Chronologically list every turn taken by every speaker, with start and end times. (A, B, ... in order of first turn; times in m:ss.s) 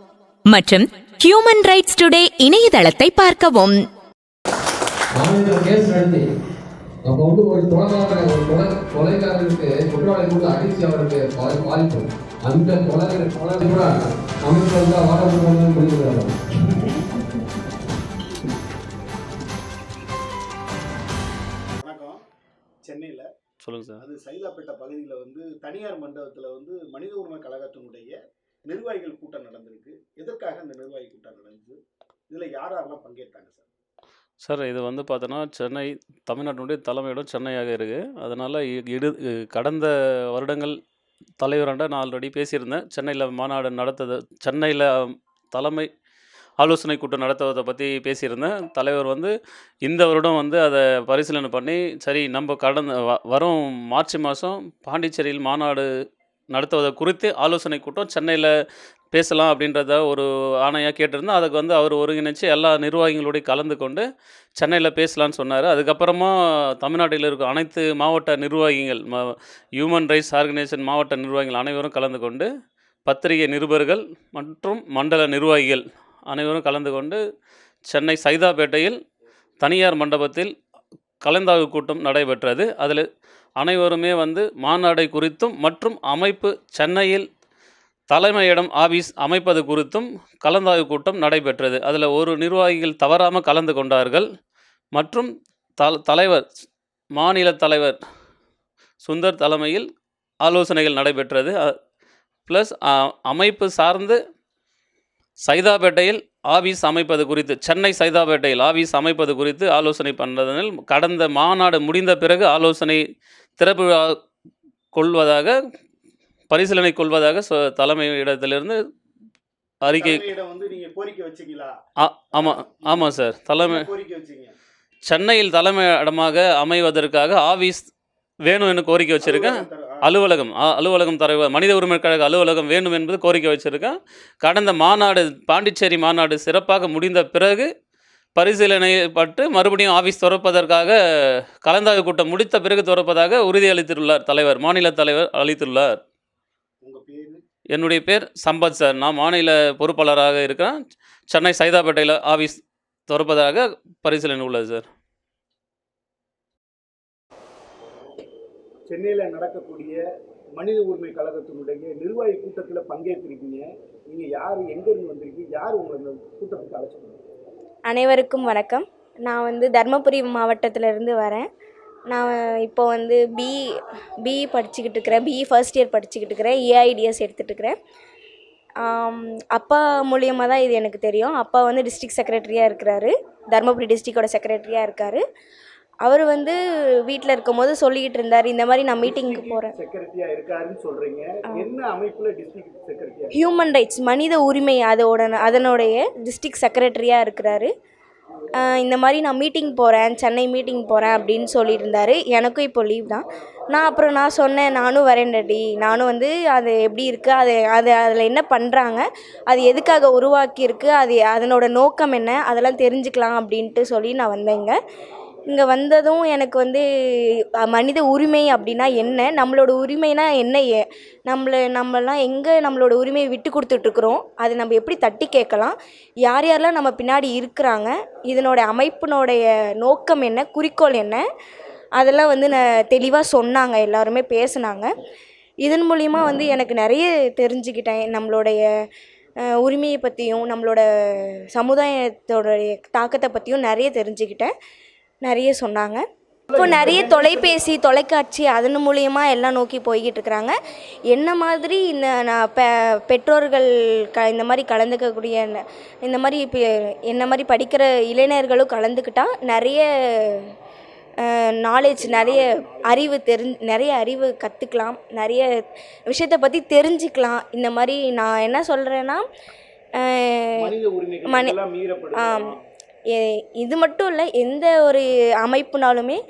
0:00.4-0:03.8 A
0:05.2-0:06.3 B
0:07.0-0:16.9 B
0:21.8-0:22.2 C
0:22.8-0:23.3 C
0:23.6-0:24.0 D
0:24.0-0:31.8 C
0:32.3-0:33.6 C
0:34.4-0:40.8 D
0:41.4-0:45.9 D
0:46.6-0:49.3 D
0:49.8-0:55.9 D
0:56.5-0:58.5 D
0:59.1-1:04.0 D
1:04.6-1:12.5 D
1:13.0-1:17.2 D
1:17.9-1:19.0 D
1:19.6-1:20.5 D
1:21.2-1:23.0 D
1:23.6-1:27.2 D
1:28.1-1:34.2 D
1:34.9-1:35.3 D
1:35.8-1:36.4 D
1:37.2-1:38.0 D
1:39.0-1:39.8 D
1:40.4-1:41.7 D
1:42.5-1:44.2 D
1:45.4-1:53.0 D
1:53.6-1:54.1 D
1:54.9-1:55.5 D
1:56.5-1:58.8 D
1:59.8-2:00.3 D
1:59.9-2:01.8 C
2:02.0-2:03.8 D
2:02.3-2:03.1 C
2:03.6-2:04.5 C
2:05.1-2:07.9 D
2:08.4-2:17.7 D
2:09.2-2:10.2 C
2:18.4-2:21.0 D
2:21.6-2:26.0 D
2:26.8-2:27.4 C
2:27.7-2:30.8 D
2:31.3-2:32.6 D
2:33.1-2:34.8 D
2:38.9-2:40.0 C
2:40.6-2:47.2 C
2:47.9-2:51.5 E
2:52.1-2:53.6 E
2:54.2-2:57.7 E
2:58.8-3:05.2 E
3:06.0-3:09.7 E
3:09.0-3:13.4 C
3:13.3-3:17.7 E
3:18.6-3:34.8 E
3:35.5-3:51.2 E
3:52.0-3:54.9 E
3:55.6-3:58.6 E
3:59.4-4:04.5 E
4:05.2-4:06.0 E
4:06.5-4:07.5 C
4:06.6-4:10.5 E
4:11.1-4:16.6 E
4:17.1-4:20.5 E
4:21.2-4:25.5 E
4:21.8-4:23.1 C
4:26.1-4:29.2 E
4:30.0-4:30.7 E
4:30.6-4:32.6 C
4:31.3-4:31.5 E
4:32.2-4:32.5 E
4:33.1-4:36.2 E